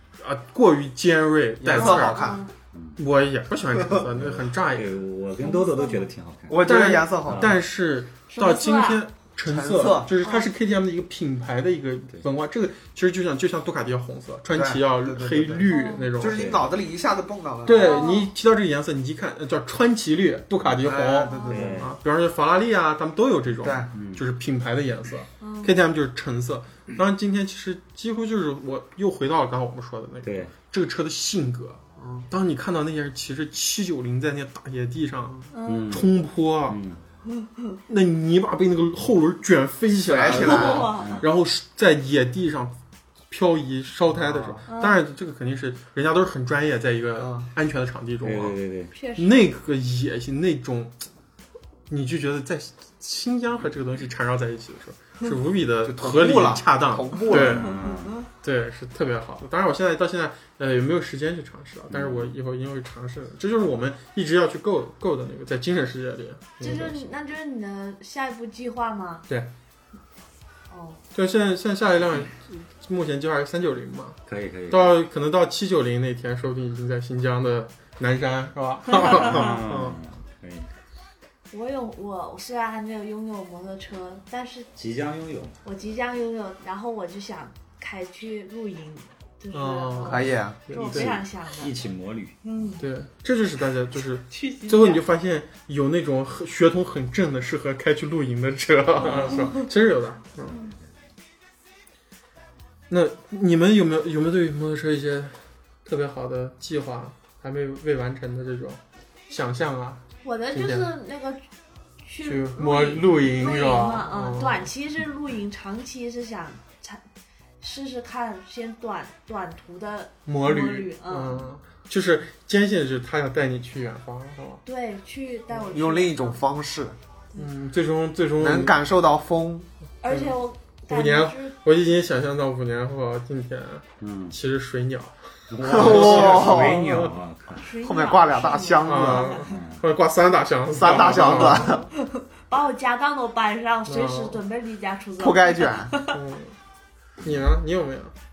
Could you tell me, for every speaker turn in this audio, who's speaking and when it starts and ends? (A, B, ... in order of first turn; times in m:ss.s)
0:00.2-0:02.2 A
0:01.6-0:02.4 B
0:01.7-0:02.5 C
0:02.7-0:03.0 D
0:03.0-0:04.9 A
0:04.1-0:07.6 D
0:05.4-0:06.1 C
0:06.5-0:07.6 B
0:06.6-0:16.5 A
0:08.3-0:09.0 C
0:09.4-0:10.1 B
0:10.2-0:10.5 C
0:14.5-0:18.0 B
0:15.7-0:16.1 C
0:16.3-0:16.7 D
0:17.6-0:36.8 A
0:17.7-0:18.3 C
0:20.8-0:21.9 B
0:21.2-0:21.6 C
0:21.5-0:22.0 D
0:23.6-0:23.9 B
0:23.9-0:24.2 D
0:25.4-0:25.8 C
0:30.2-0:30.5 D
0:32.0-0:32.3 B
0:35.5-0:36.0 C
0:35.6-0:36.1 D
0:36.7-0:37.0 D
0:37.4-0:37.7 C
0:37.9-0:42.7 A
0:40.0-0:41.0 B
0:40.3-0:41.2 C
0:40.9-0:41.3 D
0:43.3-0:48.6 A
0:44.1-0:44.6 B
0:44.7-0:45.0 C
0:47.2-0:47.5 B
0:48.2-0:48.9 D
0:48.9-0:49.4 C
0:49.2-0:51.0 A
0:51.9-0:57.7 A
0:55.8-0:57.8 B
0:57.3-0:58.2 D
0:57.8-0:58.2 C
0:58.4-1:07.0 A
1:01.9-1:02.3 D
1:06.6-1:09.2 C
1:10.7-1:11.0 C
1:11.1-1:14.2 A
1:14.3-1:15.0 D
1:14.7-1:20.0 A
1:18.9-1:20.7 D
1:21.5-1:24.7 C
1:24.8-1:25.6 D
1:25.6-1:31.7 C
1:29.5-1:31.2 A
1:30.0-1:30.6 B
1:30.8-1:32.4 D
1:32.4-1:32.8 C
1:32.8-1:40.6 A
1:34.3-1:35.0 C
1:39.0-1:39.3 D
1:39.1-1:39.6 C
1:42.9-1:50.8 A
1:50.2-1:51.4 C
1:52.0-1:57.0 C
1:52.2-1:54.7 A
1:57.6-2:01.5 C
2:00.2-2:04.6 A
2:04.6-2:06.4 C
2:05.6-2:07.0 B
2:07.4-2:08.8 A
2:08.4-2:09.7 B
2:10.0-2:11.5 C
2:10.1-2:10.4 A
2:10.9-2:17.0 A
2:14.0-2:14.4 D
2:15.5-2:17.7 D
2:15.6-2:16.9 B
2:17.6-2:19.4 C
2:17.8-2:19.4 B
2:18.8-2:21.8 A
2:19.4-2:19.8 D
2:20.8-2:21.8 B
2:21.6-2:26.2 C
2:23.9-2:24.4 A
2:25.2-2:25.9 B
2:26.0-2:26.5 A
2:27.2-2:28.1 A